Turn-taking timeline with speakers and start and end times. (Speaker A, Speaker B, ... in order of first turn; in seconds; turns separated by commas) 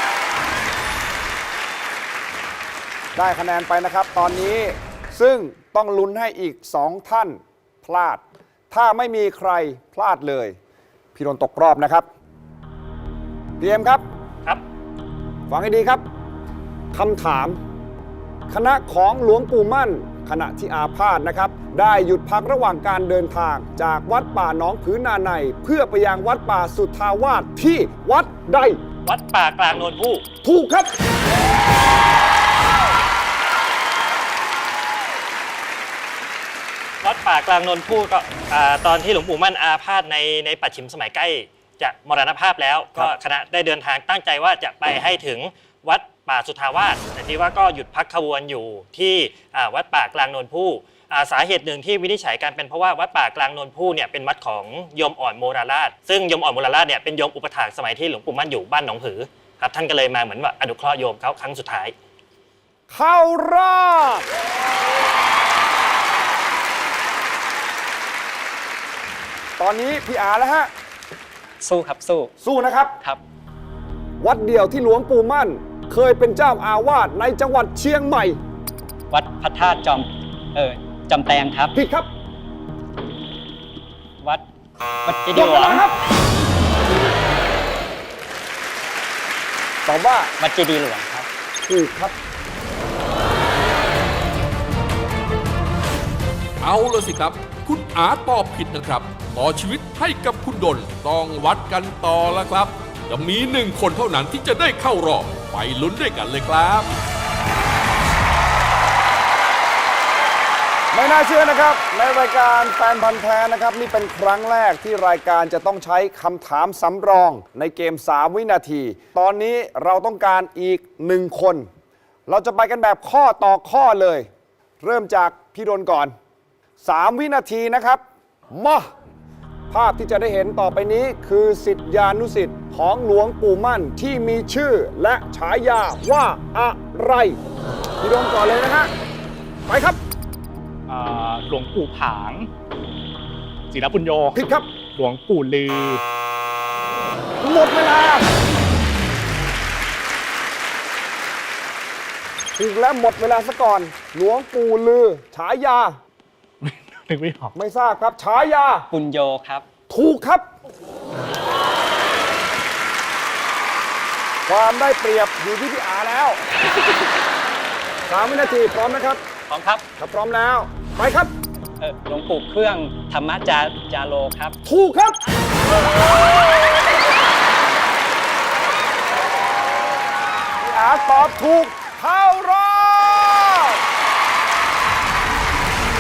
Speaker A: 3.2-10.6, Speaker A: 11.2-12.1, Speaker A: 13.6-14.0, Speaker A: 15.5-16.0, Speaker A: 16.9-17.6, Speaker A: 18.5-28.8, Speaker B: 29.1-30.2, Speaker A: 30.4-30.9, Speaker B: 37.0-61.9, Speaker A: 62.9-64.2, Speaker A: 69.6-70.7, Speaker C: 71.6-72.3, Speaker A: 72.4-72.9, Speaker A: 74.2-78.4, Speaker C: 79.1-81.8, Speaker A: 81.8-82.1, Speaker C: 85.0-85.8, Speaker A: 85.3-86.0, Speaker A: 89.8-90.3, Speaker C: 90.4-91.3, Speaker A: 91.6-92.2, Speaker D: 96.6-106.9, Speaker A: 110.9-121.7, Speaker A: 122.3-124.3, Speaker A: 124.8-126.1, Speaker A: 126.8-128.0, Speaker A: 128.5-128.9, Speaker A: 129.7-137.4, Speaker A: 138.0-138.9, Speaker A: 139.7-140.0, Speaker E: 140.9-142.5, Speaker E: 143.7-144.3, Speaker A: 144.3-144.7, Speaker E: 145.0-146.0, Speaker A: 147.4-148.3, Speaker A: 152.6-156.0, Speaker E: 156.7-157.5, Speaker A: 157.5-158.9, Speaker C: 158.9-159.6, Speaker A: 159.9-160.4, Speaker A: 164.5-166.4, Speaker A: 168.1-169.2, Speaker C: 169.5-169.8, Speaker A: 170.0-171.3, Speaker C: 171.8-174.6, Speaker A: 174.6-175.2, Speaker A: 180.6-183.8